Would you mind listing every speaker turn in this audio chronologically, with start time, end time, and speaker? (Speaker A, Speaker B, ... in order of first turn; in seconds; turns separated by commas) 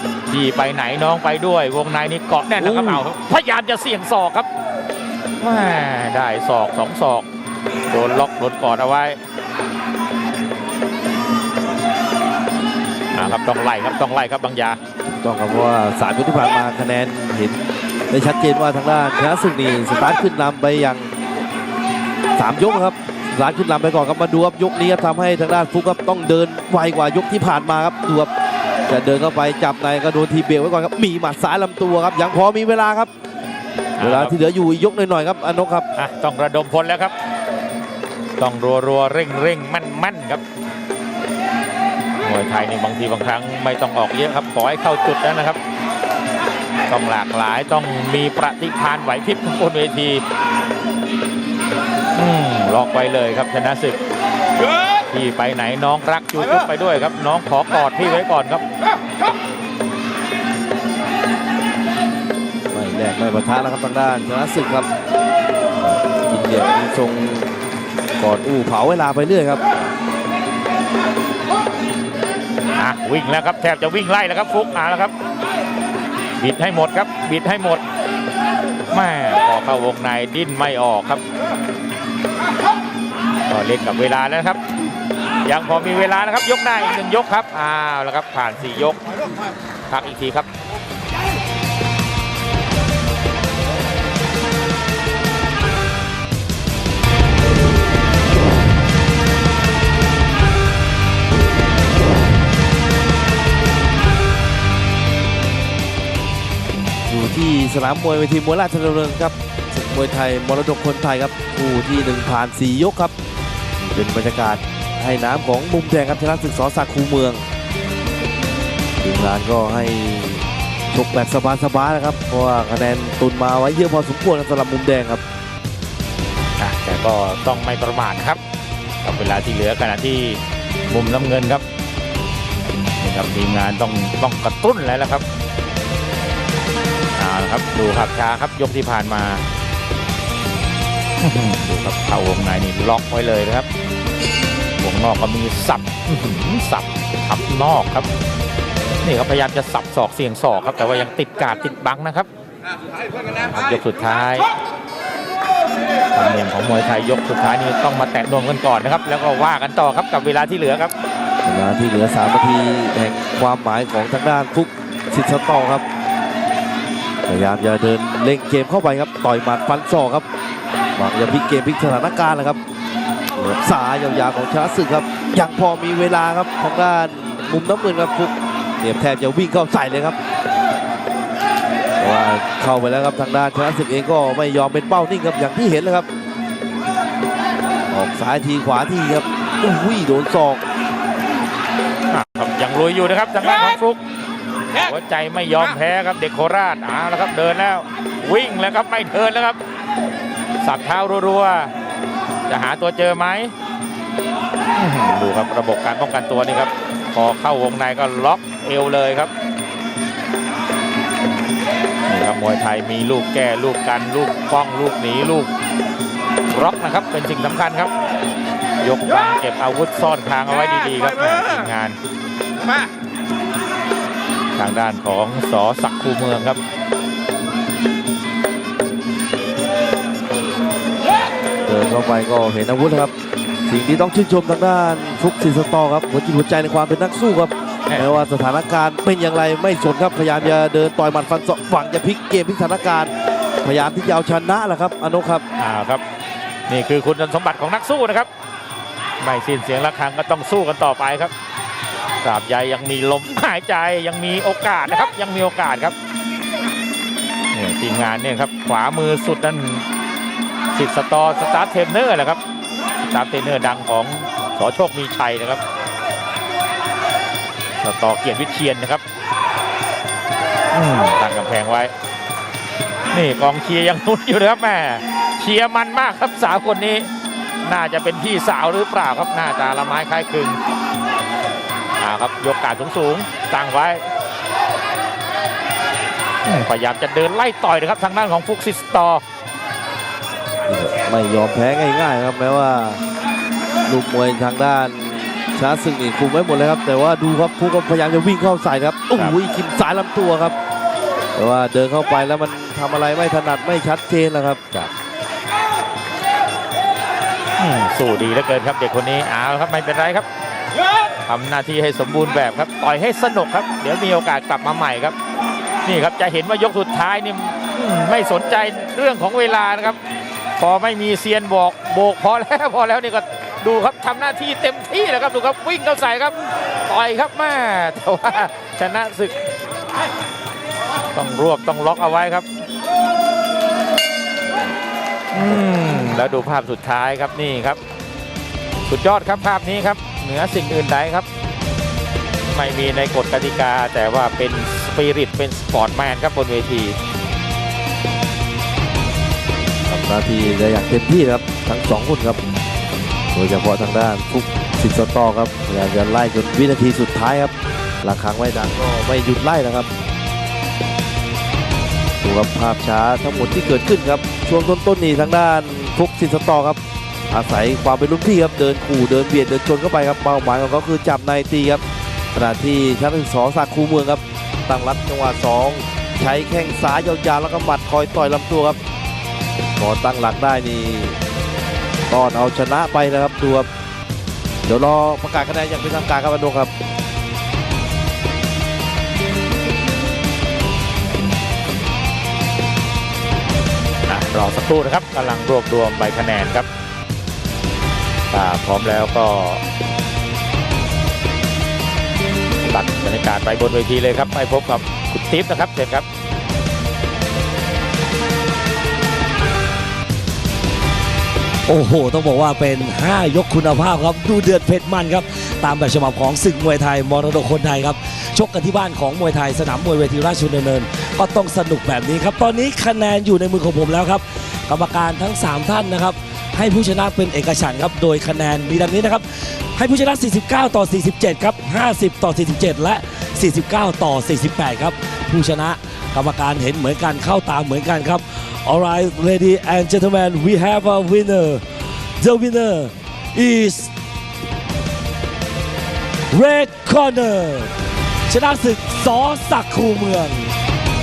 Speaker A: 0.3-4.5, Speaker B: 2.6-3.0, Speaker A: 5.4-7.3, Speaker A: 7.9-9.2, Speaker A: 13.1-14.8, Speaker B: 15.1-21.1, Speaker B: 22.4-28.3, Speaker B: 28.9-33.1, Speaker A: 34.0-34.3, Speaker B: 34.0-35.9, Speaker A: 36.0-37.1, Speaker A: 38.4-40.4, Speaker A: 42.2-45.6, Speaker A: 46.9-50.2, Speaker A: 52.1-54.0, Speaker A: 55.1-58.6, Speaker B: 62.7-64.9, Speaker B: 65.8-67.5, Speaker B: 68.2-69.6, Speaker A: 72.8-75.1, Speaker A: 76.4-77.8, Speaker A: 78.9-81.2, Speaker A: 83.5-84.6, Speaker A: 85.5-89.0, Speaker A: 89.9-90.5, Speaker B: 107.1-113.1, Speaker B: 113.8-117.5, Speaker B: 119.0-125.2, Speaker A: 126.6-128.4, Speaker A: 129.0-131.6, Speaker A: 133.0-135.2, Speaker A: 137.2-139.4, Speaker A: 141.2-143.7, Speaker A: 144.8-148.1, Speaker A: 149.0-152.3, Speaker A: 153.3-154.5, Speaker A: 156.1-160.9, Speaker B: 161.4-165.8, Speaker B: 167.3-170.3, Speaker B: 171.0-172.6, Speaker B: 173.3-180.2, Speaker B: 182.0-186.1, Speaker B: 187.9-190.6, Speaker A: 192.1-194.0, Speaker A: 194.8-199.6, Speaker A: 200.6-201.7, Speaker A: 202.5-203.5, Speaker A: 204.8-209.3, Speaker A: 212.1-215.5, Speaker A: 216.5-217.9, Speaker A: 218.8-222.0, Speaker A: 224.6-226.6, Speaker B: 231.7-233.1, Speaker B: 233.7-243.1, Speaker B: 243.6-245.4, Speaker A: 245.6-246.0, Speaker A: 246.7-248.3, Speaker A: 249.2-251.3, Speaker A: 252.2-256.0, Speaker A: 257.5-259.9, Speaker A: 260.7-262.4, Speaker A: 263.1-265.6, Speaker A: 267.8-269.0, Speaker A: 270.7-271.9, Speaker A: 273.1-277.1, Speaker A: 277.6-280.6, Speaker A: 282.0-284.1, Speaker A: 286.4-289.2, Speaker B: 290.7-293.0, Speaker B: 293.9-300.6, Speaker B: 301.4-304.6, Speaker A: 307.6-310.3, Speaker A: 311.2-315.2, Speaker A: 315.9-320.0, Speaker A: 320.6-329.4, Speaker A: 331.1-332.5, Speaker A: 335.3-337.8, Speaker A: 338.9-341.3, Speaker A: 342.5-347.0, Speaker B: 349.9-352.4, Speaker B: 353.3-359.9, Speaker B: 362.2-366.8, Speaker B: 367.3-371.8, Speaker B: 372.3-378.8, Speaker B: 379.8-381.2, Speaker B: 382.1-383.7, Speaker B: 384.6-386.7, Speaker A: 394.1-396.7, Speaker A: 398.3-399.6, Speaker A: 402.6-406.1, Speaker C: 411.7-441.6, Speaker C: 442.2-443.9, Speaker C: 446.3-447.7, Speaker C: 448.3-450.5